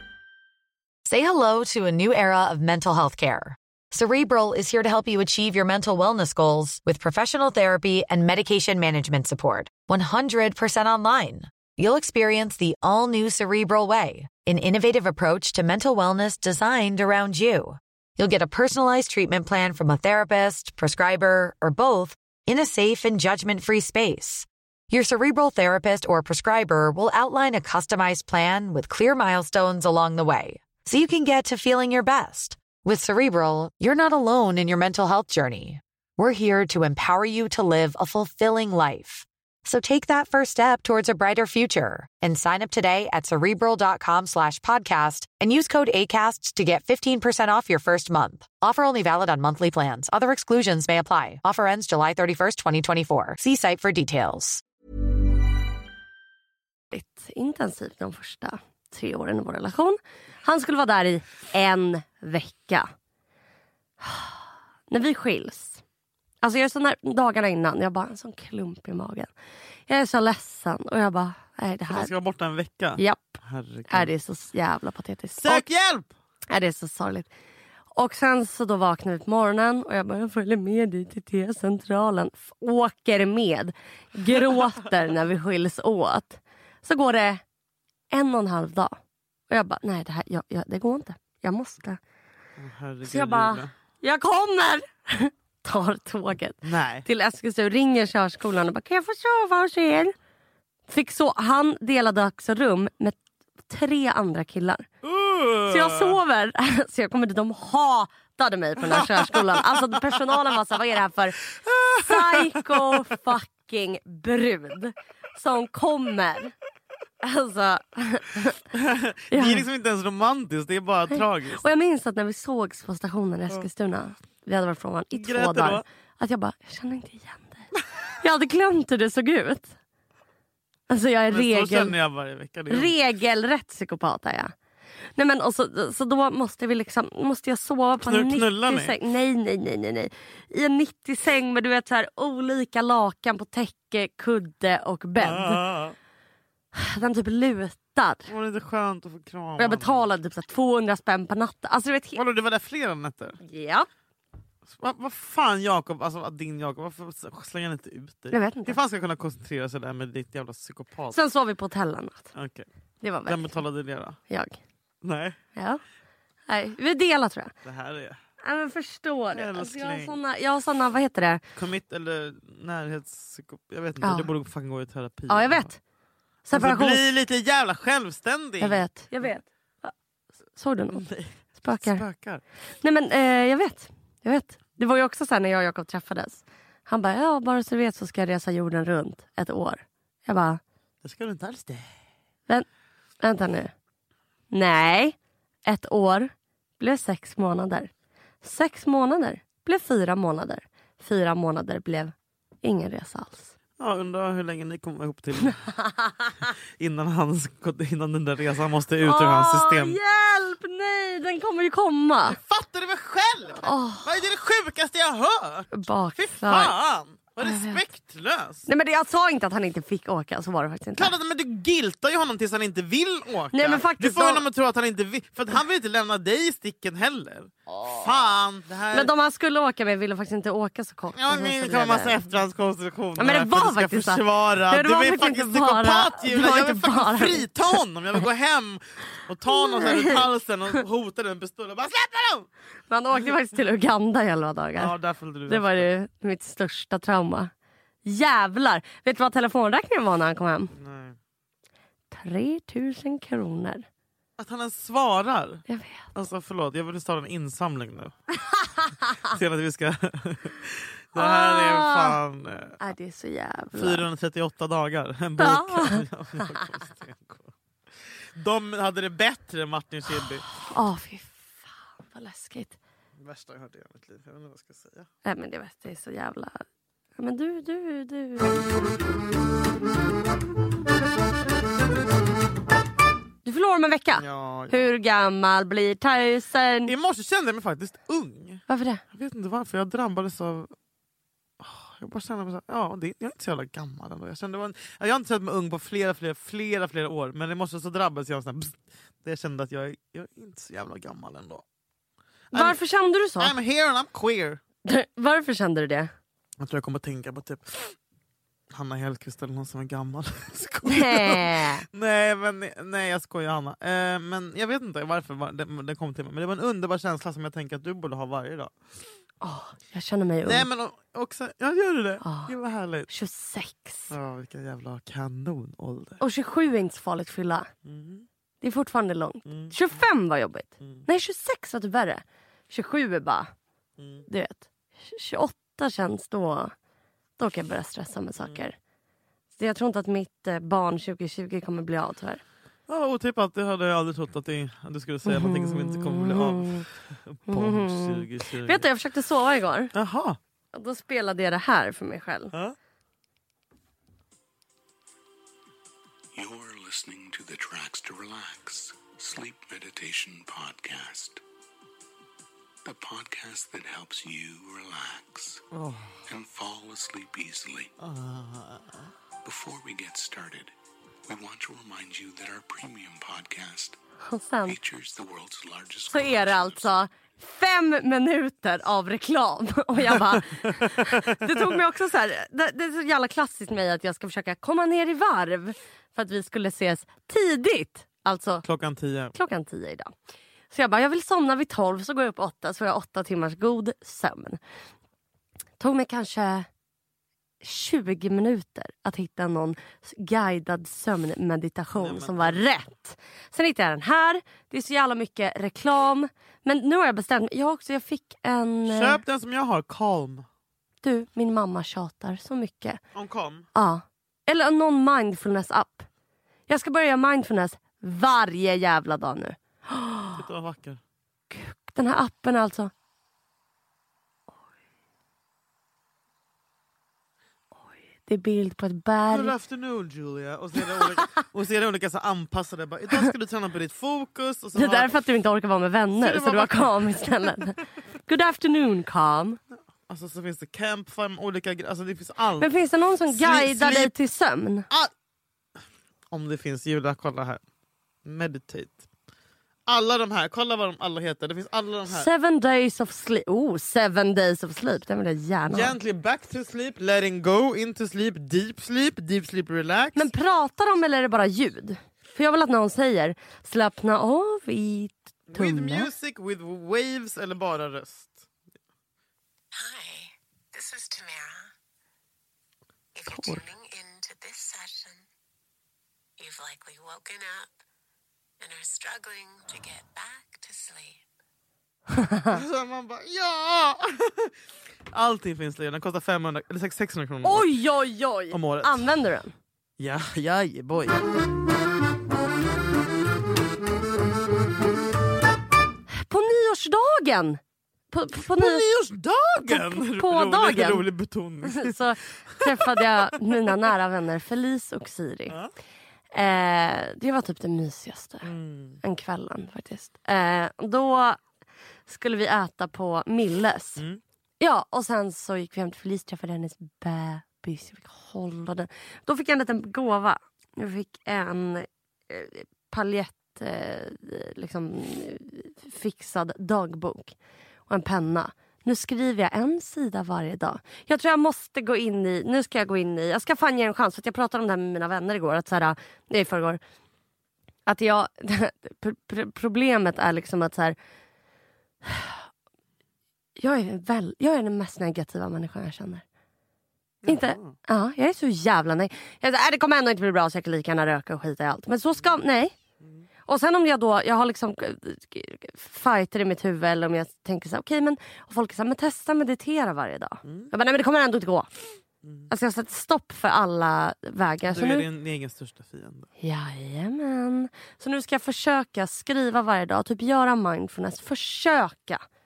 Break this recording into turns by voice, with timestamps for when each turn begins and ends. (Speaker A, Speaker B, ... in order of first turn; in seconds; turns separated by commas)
Speaker A: 1.1-54.6, Speaker B: 56.9-62.9, Speaker B: 64.0-64.4, Speaker B: 64.9-65.8, Speaker B: 66.4-69.3, Speaker B: 69.9-72.1, Speaker C: 71.9-74.1, Speaker B: 73.0-75.7, Speaker C: 75.4-76.1, Speaker B: 76.5-77.3, Speaker B: 78.0-87.4, Speaker B: 88.1-89.0, Speaker B: 89.5-92.0, Speaker C: 92.6-93.7, Speaker B: 93.0-100.1, Speaker C: 96.6-97.1, Speaker B: 100.9-103.2, Speaker B: 103.7-104.9, Speaker C: 105.0-106.2, Speaker B: 105.7-111.4, Speaker C: 108.9-109.6, Speaker C: 111.7-112.9, Speaker B: 112.0-116.5, Speaker B: 117.2-118.6, Speaker C: 118.7-121.6, Speaker B: 119.3-119.7, Speaker B: 121.1-127.7, Speaker C: 125.1-125.8, Speaker B: 128.2-129.8, Speaker B: 130.9-131.9, Speaker C: 131.3-132.9, Speaker B: 132.7-134.5, Speaker B: 135.2-145.6, Speaker C: 138.0-138.9, Speaker C: 145.2-146.0, Speaker B: 146.8-148.3, Speaker C: 148.3-150.1, Speaker B: 149.6-152.2, Speaker C: 152.2-153.4, Speaker B: 153.4-153.9, Speaker C: 154.7-161.2, Speaker B: 158.3-158.8, Speaker B: 161.1-162.3, Speaker C: 162.3-162.7, Speaker B: 163.0-163.6, Speaker C: 163.3-164.2, Speaker B: 164.3-164.6, Speaker C: 165.0-165.4, Speaker B: 165.6-165.8, Speaker B: 166.5-167.5, Speaker C: 167.6-168.2, Speaker B: 168.4-171.4, Speaker C: 169.3-170.2, Speaker C: 171.6-175.7, Speaker B: 174.0-174.3, Speaker B: 175.3-175.8, Speaker B: 176.5-177.0, Speaker C: 176.5-178.9, Speaker B: 178.6-179.9, Speaker B: 180.6-182.0, Speaker C: 180.9-182.4, Speaker B: 182.8-190.6, Speaker C: 191.0-191.9, Speaker B: 193.2-193.7, Speaker B: 194.5-197.9, Speaker B: 198.4-203.5, Speaker C: 203.8-205.7, Speaker C: 206.8-210.0, Speaker B: 209.0-212.4, Speaker C: 212.3-218.7, Speaker B: 213.6-214.1, Speaker B: 215.7-216.7, Speaker B: 217.4-217.8, Speaker B: 218.7-221.1, Speaker C: 221.0-229.1, Speaker B: 223.5-224.4, Speaker B: 228.9-232.2, Speaker C: 231.2-242.5, Speaker B: 233.2-237.8, Speaker B: 239.5-240.2, Speaker B: 242.9-244.9, Speaker C: 244.8-245.9, Speaker B: 245.5-247.5, Speaker B: 248.1-250.7, Speaker C: 250.7-251.2, Speaker B: 252.1-253.8, Speaker C: 254.4-258.1, Speaker B: 255.7-256.1, Speaker C: 259.3-262.8, Speaker B: 261.1-262.2, Speaker B: 262.8-264.1, Speaker C: 263.7-267.5, Speaker B: 265.4-266.6, Speaker C: 268.4-270.5, Speaker B: 270.7-272.8, Speaker C: 273.2-275.1, Speaker B: 275.2-276.6, Speaker B: 277.2-278.6, Speaker B: 283.4-286.9, Speaker C: 284.2-284.9, Speaker C: 286.9-290.7, Speaker B: 288.7-289.0, Speaker C: 291.6-301.6, Speaker C: 302.5-302.8, Speaker B: 302.5-303.6, Speaker C: 303.4-304.6, Speaker B: 304.9-306.1, Speaker C: 306.6-307.9, Speaker C: 308.7-318.7, Speaker B: 310.9-311.9, Speaker B: 319.4-320.7, Speaker C: 320.4-323.1, Speaker B: 322.2-322.5, Speaker B: 323.1-324.1, Speaker C: 324.1-326.2, Speaker B: 326.2-327.7, Speaker C: 327.9-328.3, Speaker B: 328.6-333.5, Speaker C: 329.5-330.0, Speaker C: 330.8-331.1, Speaker C: 334.0-334.3, Speaker B: 334.3-336.7, Speaker B: 337.4-338.8, Speaker B: 339.6-342.4, Speaker C: 342.9-348.9, Speaker B: 345.3-346.9, Speaker B: 347.5-349.9, Speaker C: 349.9-350.4, Speaker B: 350.7-352.5, Speaker D: 356.3-361.4, Speaker D: 362.8-365.6, Speaker C: 365.7-366.2, Speaker D: 366.3-367.9, Speaker C: 368.0-369.1, Speaker D: 369.4-370.7, Speaker D: 371.2-374.0, Speaker B: 374.3-374.8, Speaker D: 374.7-376.9, Speaker B: 376.1-388.6, Speaker C: 380.1-381.6, Speaker C: 388.6-389.3, Speaker B: 389.3-390.1, Speaker B: 390.7-394.6, Speaker B: 395.8-396.7, Speaker B: 397.6-409.2, Speaker C: 402.0-402.6, Speaker C: 408.9-410.5, Speaker B: 411.0-413.0, Speaker C: 413.1-413.7, Speaker B: 413.8-416.1, Speaker B: 416.7-420.4, Speaker C: 420.3-421.0, Speaker B: 421.5-422.9, Speaker B: 428.3-429.5, Speaker C: 429.3-435.1, Speaker B: 434.8-439.6, Speaker C: 436.2-437.5, Speaker C: 439.7-442.7, Speaker B: 442.6-444.9, Speaker C: 443.3-444.1, Speaker C: 446.3-447.6, Speaker C: 448.2-449.0, Speaker C: 449.9-452.3, Speaker B: 452.1-456.0, Speaker C: 455.7-460.3, Speaker B: 460.1-466.1, Speaker C: 465.5-468.5, Speaker E: 469.7-471.7, Speaker E: 473.1-475.2, Speaker C: 473.3-473.6, Speaker E: 476.4-477.8, Speaker E: 478.6-481.2, Speaker B: 482.1-482.6, Speaker C: 482.5-484.5, Speaker C: 485.1-487.8, Speaker B: 487.4-489.5, Speaker C: 488.5-489.1, Speaker C: 490.0-491.2, Speaker B: 496.1-497.6, Speaker B: 498.1-498.9, Speaker C: 498.6-503.8, Speaker B: 499.6-501.0, Speaker B: 501.7-505.6, Speaker B: 506.3-508.5, Speaker C: 508.4-509.0, Speaker B: 509.0-511.4, Speaker B: 512.1-514.0, Speaker B: 514.6-527.4, Speaker B: 527.9-536.8, Speaker B: 537.9-541.0, Speaker B: 542.0-542.4, Speaker B: 543.6-546.2, Speaker C: 547.2-547.8, Speaker B: 547.3-552.8, Speaker C: 553.0-553.3, Speaker B: 553.5-561.7, Speaker C: 560.4-560.7, Speaker C: 562.2-562.5, Speaker B: 562.5-565.1, Speaker C: 564.7-566.3, Speaker B: 566.4-572.2